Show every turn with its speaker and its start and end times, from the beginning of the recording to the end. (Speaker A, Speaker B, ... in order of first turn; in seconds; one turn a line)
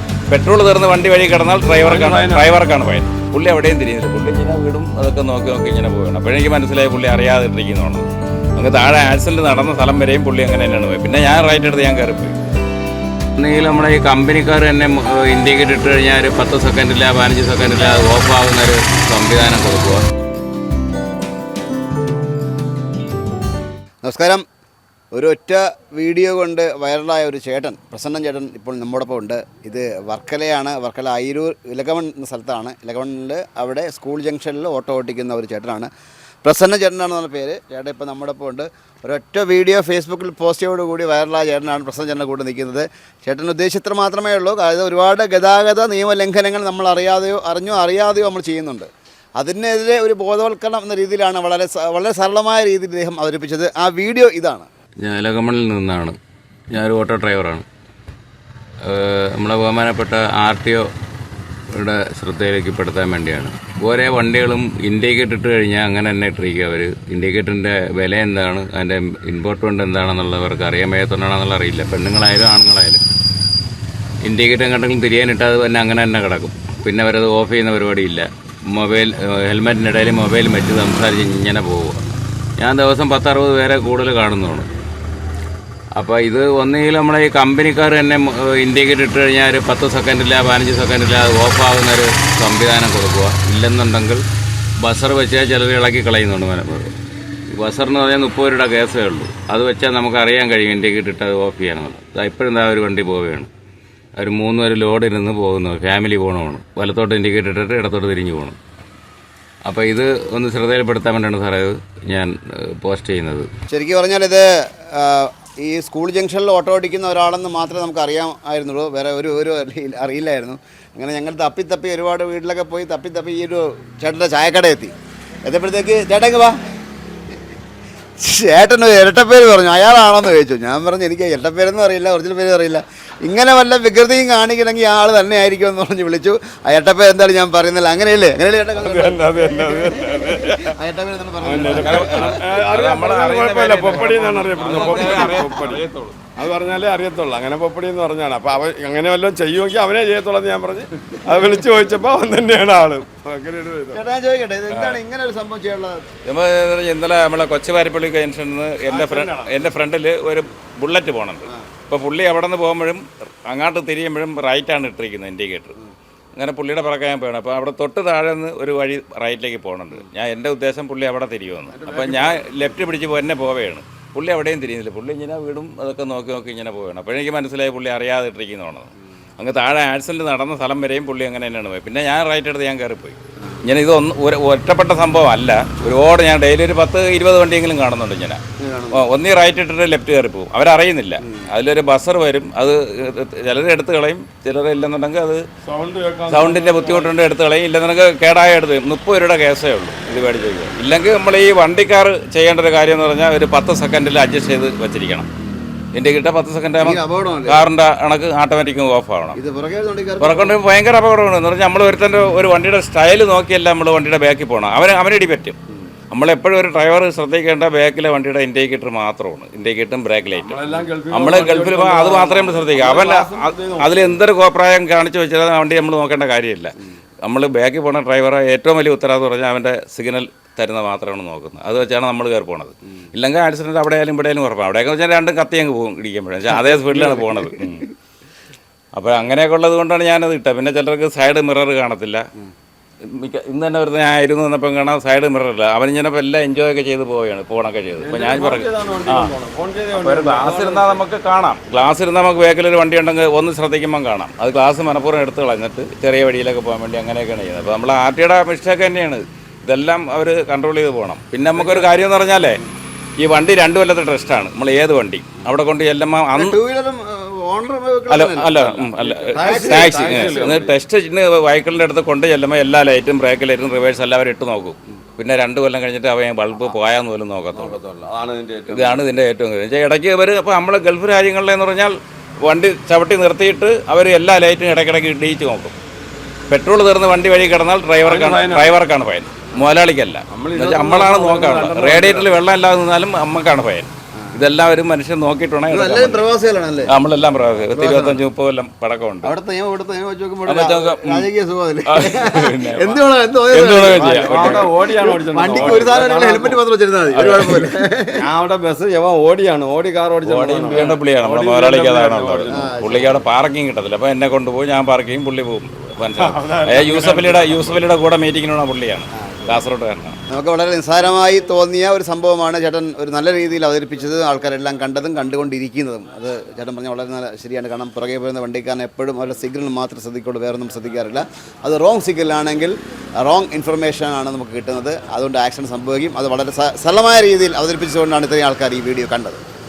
Speaker A: 0.3-12.3
Speaker B: 1.6-2.6
Speaker A: 13.4-20.1
Speaker C: 24.0-24.4
Speaker C: 25.1-35.9
Speaker C: 36.4-54.7
Speaker A: 55.0-56.2
Speaker A: 56.7-57.6
Speaker A: 58.8-60.9
Speaker A: 61.7-73.0
Speaker A: 74.2-84.7
Speaker A: 86.0-94.2
Speaker A: 94.8-96.9
Speaker A: 97.5-103.5
Speaker A: 104.2-108.6
Speaker A: 109.7-113.5
Speaker C: 113.7-124.9
Speaker C: 125.5-126.6
Speaker C: 128.2-142.4
Speaker B: 138.8-140.8
Speaker B: 141.4-154.0
Speaker A: 141.6-146.2
Speaker C: 144.9-145.5
Speaker C: 153.9-156.0
Speaker A: 154.7-155.0
Speaker A: 156.3-165.8
Speaker B: 158.9-159.4
Speaker A: 166.4-188.4
Speaker B: 172.0-172.5
Speaker C: 188.6-189.1
Speaker A: 188.9-195.4
Speaker C: 191.2-191.5
Speaker B: 195.6-197.1
Speaker A: 196.3-205.3
Speaker A: 205.9-209.4
Speaker C: 206.8-207.7
Speaker C: 209.4-210.6
Speaker A: 210.2-215.6
Speaker A: 216.1-237.9
Speaker B: 220.3-224.2
Speaker C: 236.5-237.8
Speaker A: 238.9-242.3
Speaker A: 243.1-249.3
Speaker B: 248.0-251.0
Speaker A: 249.9-262.6
Speaker A: 263.2-266.6
Speaker C: 266.3-270.5
Speaker A: 268.1-277.8
Speaker B: 269.0-270.8
Speaker B: 277.5-279.0
Speaker A: 278.7-285.8
Speaker A: 286.5-296.3
Speaker B: 288.0-288.8
Speaker B: 290.3-292.4
Speaker C: 295.7-298.2
Speaker A: 296.9-299.3
Speaker C: 299.2-308.3
Speaker A: 300.5-301.3
Speaker A: 301.9-304.7
Speaker B: 303.9-306.6
Speaker B: 307.1-312.9
Speaker A: 310.2-320.2
Speaker C: 312.5-313.2
Speaker B: 316.2-317.8
Speaker C: 319.2-319.6
Speaker C: 320.3-339.4